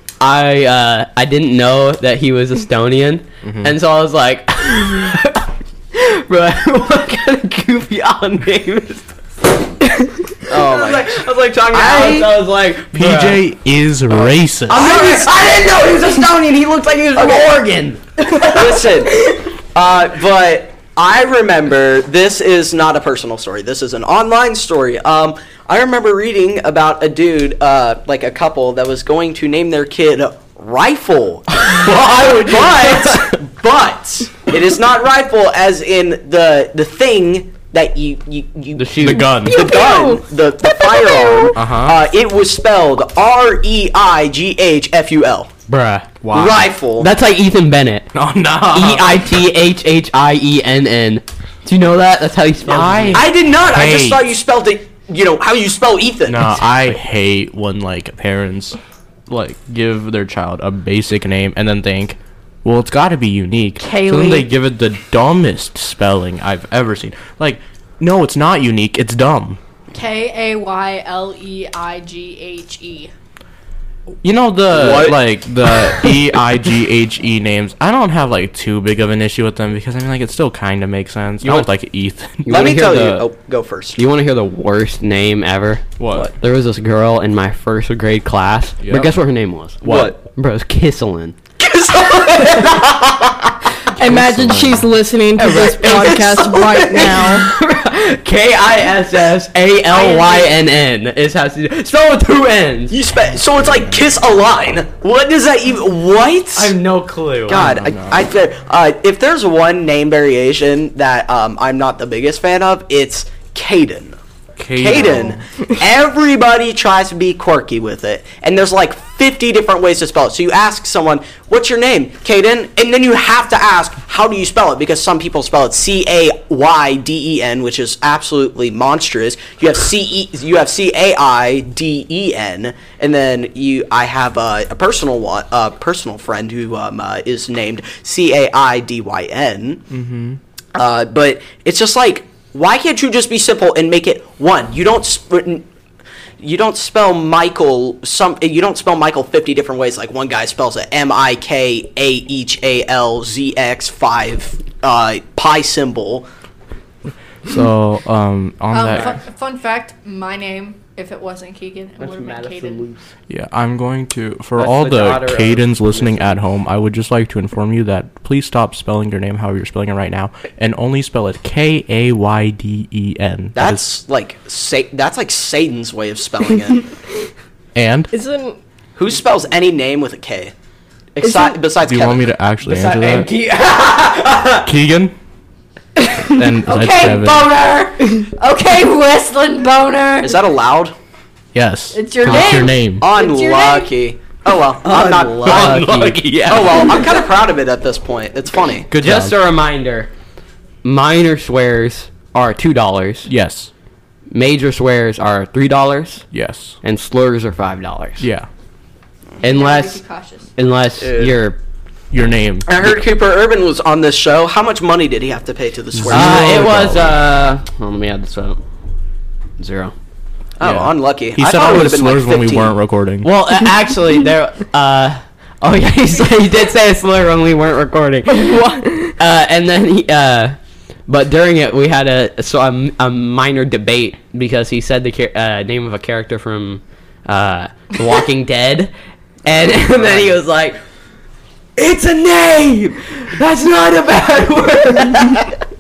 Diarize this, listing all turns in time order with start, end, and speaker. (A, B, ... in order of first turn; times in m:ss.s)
0:00.2-0:09.1 A
0:03.4-0:03.7 B
0:10.5-0:12.3 C
0:10.5-0:13.4 A
0:12.9-0:15.0 B
0:14.2-0:15.7 C
0:14.7-0:18.6 A
0:17.2-0:17.5 C
0:18.4-0:45.5 C
0:38.8-0:39.6 A
0:39.2-0:41.6 D
0:41.5-0:42.0 B
0:45.7-0:46.2 A
0:46.2-0:46.7 B
0:46.3-0:47.1 C
0:47.0-0:48.1 A
0:48.1-0:49.2 B
0:48.7-0:53.3 A
0:52.6-0:54.2 B
0:53.1-0:56.6 C
0:56.2-0:58.8 B
0:59.3-1:09.6 B
1:09.9-1:13.1 E
1:14.2-1:22.7 B
1:14.7-1:15.2 C
1:22.4-1:23.3 A
1:22.5-1:24.0 C
1:24.0-1:31.4 A
1:26.0-1:26.3 B
1:28.8-1:29.2 B
1:29.8-1:30.2 B
1:29.8-1:30.1 C
1:31.6-1:33.5 C
1:33.9-1:37.5 D
1:34.0-1:34.8 B
1:35.4-1:36.2 A
1:35.7-1:37.2 C
1:37.1-1:43.0 A
1:39.9-1:40.5 E
1:42.9-1:46.7 C
1:46.6-1:47.6 A
1:47.5-1:54.2 C
1:47.5-1:48.2 B
1:54.6-1:55.4 B
1:54.8-2:19.8 C
2:19.9-2:20.4 B
2:20.7-2:25.7 C
2:26.4-2:36.3 C
2:37.4-2:39.2 B
2:38.7-2:42.8 E
2:42.0-2:43.1 A
2:43.3-2:53.8 B
2:44.5-2:46.4 A
2:53.5-2:56.8 C
2:57.7-2:58.1 B
2:58.1-2:58.6 D
2:59.0-3:00.5 C
3:01.1-3:02.3 C
3:01.2-3:01.5 D
3:01.8-3:03.3 B
3:02.6-3:04.7 A
3:04.6-3:05.1 B
3:06.3-3:07.5 B
3:06.6-3:10.4 E
3:10.2-3:10.9 C
3:11.5-3:13.0 B
3:11.9-3:13.9 E
3:12.3-3:12.5 A
3:13.0-3:15.9 C
3:14.8-3:17.0 A
3:15.4-3:16.8 B
3:16.4-3:18.9 C
3:18.9-3:19.4 B
3:19.0-3:20.1 A
3:20.8-3:23.3 A
3:23.2-3:23.7 B
3:24.3-3:26.2 A
3:26.3-3:26.8 B
3:26.8-3:28.3 A
3:28.2-3:28.5 B
3:29.4-3:30.0 A
3:29.4-3:30.5 E
3:30.6-3:31.6 A
3:31.0-3:31.3 C
3:32.1-3:32.8 B
3:32.6-3:37.0 C
3:36.0-3:37.1 B
3:36.1-3:38.6 A
3:39.6-3:39.9 A
3:40.6-3:42.8 C
3:40.6-3:43.3 B
3:43.2-3:58.9 A
3:48.3-3:49.1 D
3:59.4-4:00.8 A
3:59.9-4:00.3 C
4:01.8-4:05.5 A